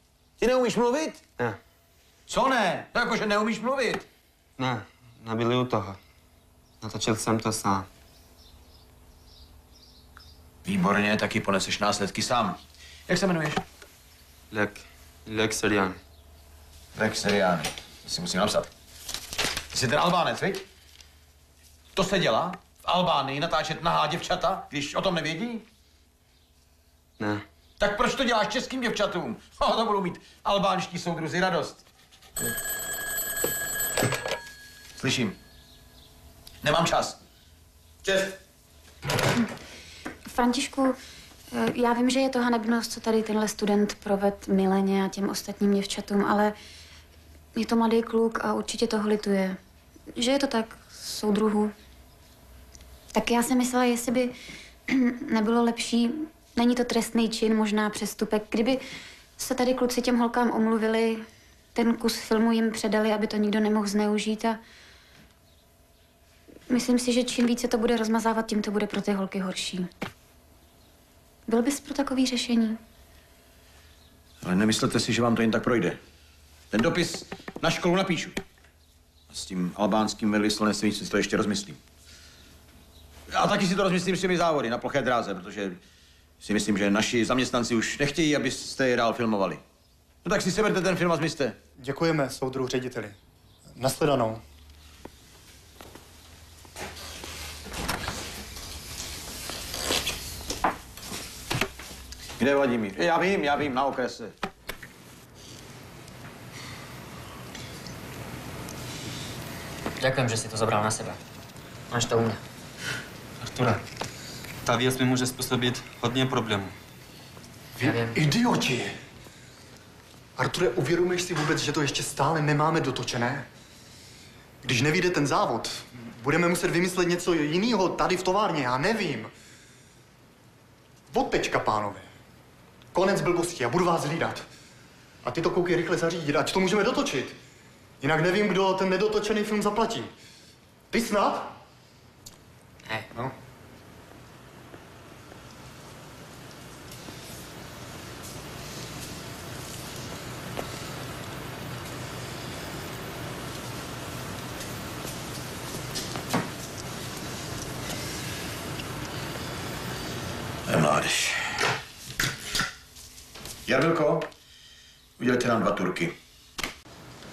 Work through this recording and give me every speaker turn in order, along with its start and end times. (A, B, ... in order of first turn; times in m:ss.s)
0:00.4-0:01.2 A
0:02.3-0:04.0 A
0:04.6-0:06.0 B
0:06.8-0:07.9 B
0:10.6-0:12.6 A
0:13.1-0:13.6 A
0:14.5-0:16.0 B
0:17.0-0:18.7 A
0:19.7-0:20.6 A
0:22.0-0:25.6 A
0:27.8-0:31.8 A
0:35.0-0:35.3 A
0:36.6-0:37.2 A
0:38.0-0:38.4 A
0:40.3-0:41.0 C
0:41.5-0:46.5 C
0:47.5-0:49.6 C
0:50.1-0:51.7 C
0:53.1-0:54.3 C
0:54.9-0:58.8 C
0:59.4-1:04.6 C
1:06.7-1:09.9 C
1:11.5-1:12.8 C
1:14.4-1:16.0 A
1:16.7-1:18.4 A
1:19.3-1:21.8 A
1:23.3-1:25.8 A
1:26.4-1:29.6 A
1:30.2-1:31.6 A
1:31.8-1:33.2 D
1:33.8-1:34.4 D
1:42.4-1:44.3 A
1:50.0-1:51.2 E
1:51.9-1:52.4 E
1:53.4-1:53.8 B
1:54.6-1:56.7 B
1:57.8-1:58.9 D
1:57.8-1:58.2 E
2:00.4-2:03.4 D
2:04.6-2:09.3 D
2:11.1-2:12.0 D
2:12.9-2:14.4 D
2:15.2-2:17.4 D
2:18.0-2:20.1 D
2:20.9-2:21.5 D
2:40.7-2:41.4 A
2:43.7-2:44.3 A
2:45.2-2:46.1 A